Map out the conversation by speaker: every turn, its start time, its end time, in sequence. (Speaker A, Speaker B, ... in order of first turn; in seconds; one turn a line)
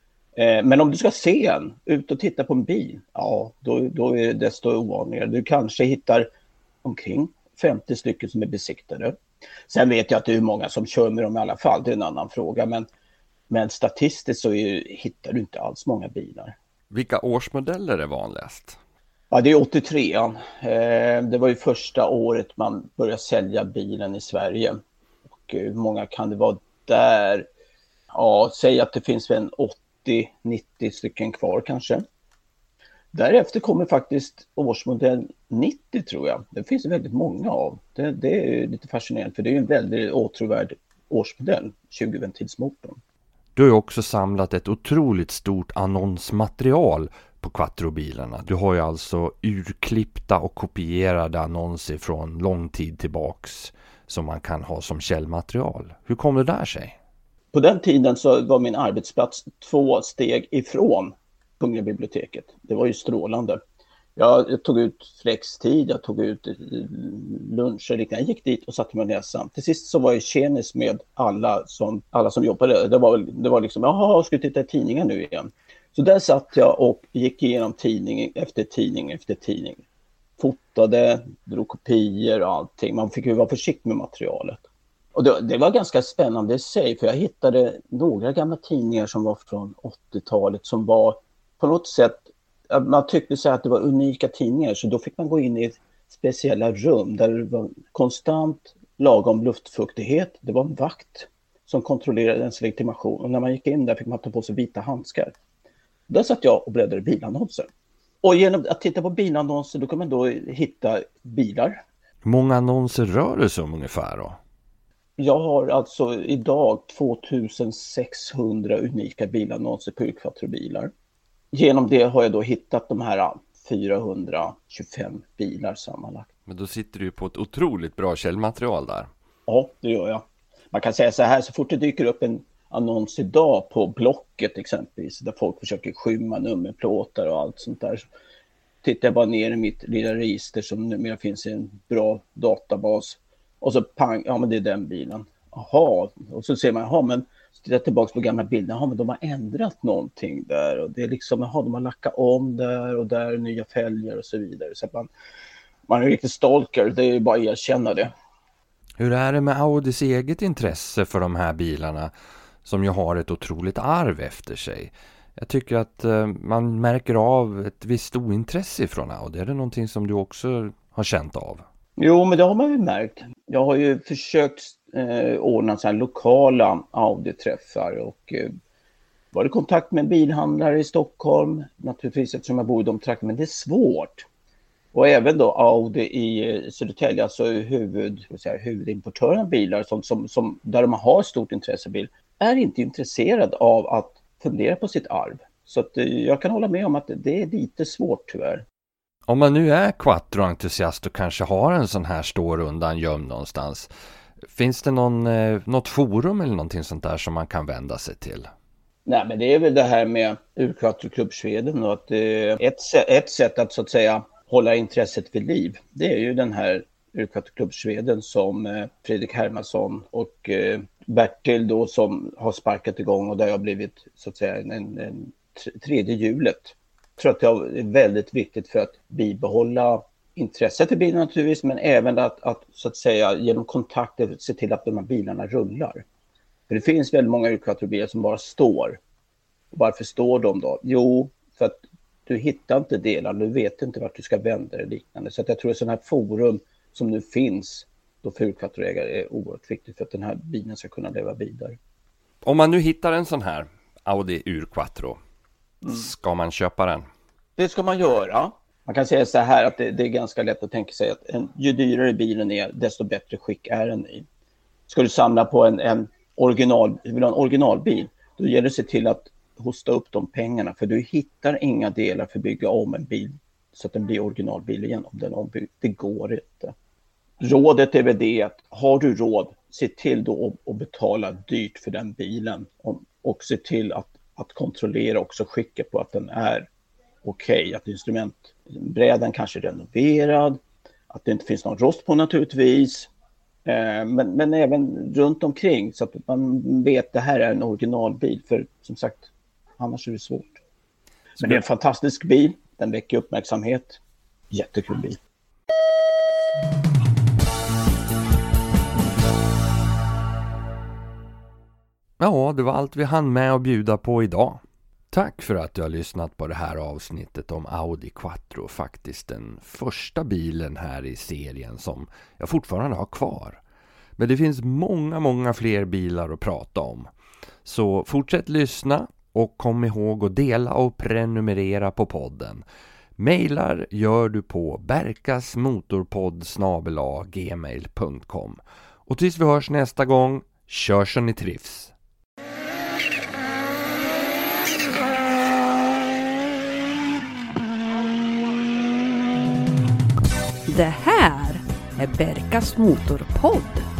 Speaker A: 0.4-6.3
Speaker A: 6.8-9.2
Speaker A: 9.7-12.9
Speaker A: 13.5-16.5
Speaker B: 16.9-18.8
Speaker A: 19.3-24.8
Speaker A: 25.4-27.5
Speaker A: 28.1-32.0
Speaker A: 33.1-43.0
Speaker B: 43.6-57.0
Speaker A: 57.5-63.6
Speaker A: 64.2-79.8
Speaker A: 80.4-84.6
Speaker A: 85.2-105.3
Speaker A: 106.1-107.7
Speaker A: 108.2-111.8
Speaker B: 112.2-114.4
Speaker A: 115.2-120.9
Speaker A: 121.5-126.3
Speaker B: 126.5-129.1
Speaker A: 129.5-138.1
Speaker A: 138.8-155.1
Speaker A: 155.9-158.1
Speaker B: 159.0-162.1
Speaker B: 162.7-171.6
Speaker A: 172.0-178.5
Speaker A: 179.3-184.3
Speaker A: 184.9-198.6
Speaker B: 199.3-203.9
Speaker B: 204.5-208.5
Speaker A: 209.1-236.0
Speaker A: 236.7-239.0
Speaker A: 239.7-251.8
Speaker B: 252.4-255.2
Speaker B: 255.9-257.1
Speaker A: 257.6-264.3
Speaker A: 264.9-276.7
Speaker A: 277.4-286.7
Speaker A: 287.2-293.1
Speaker A: 293.6-300.6
Speaker A: 301.4-304.0
Speaker A: 304.5-305.2
Speaker B: 312.2-314.6
Speaker B: 315.1-323.6
Speaker B: 324.2-327.1
Speaker B: 327.6-332.6
Speaker B: 333.2-341.9
Speaker C: 350.7-353.9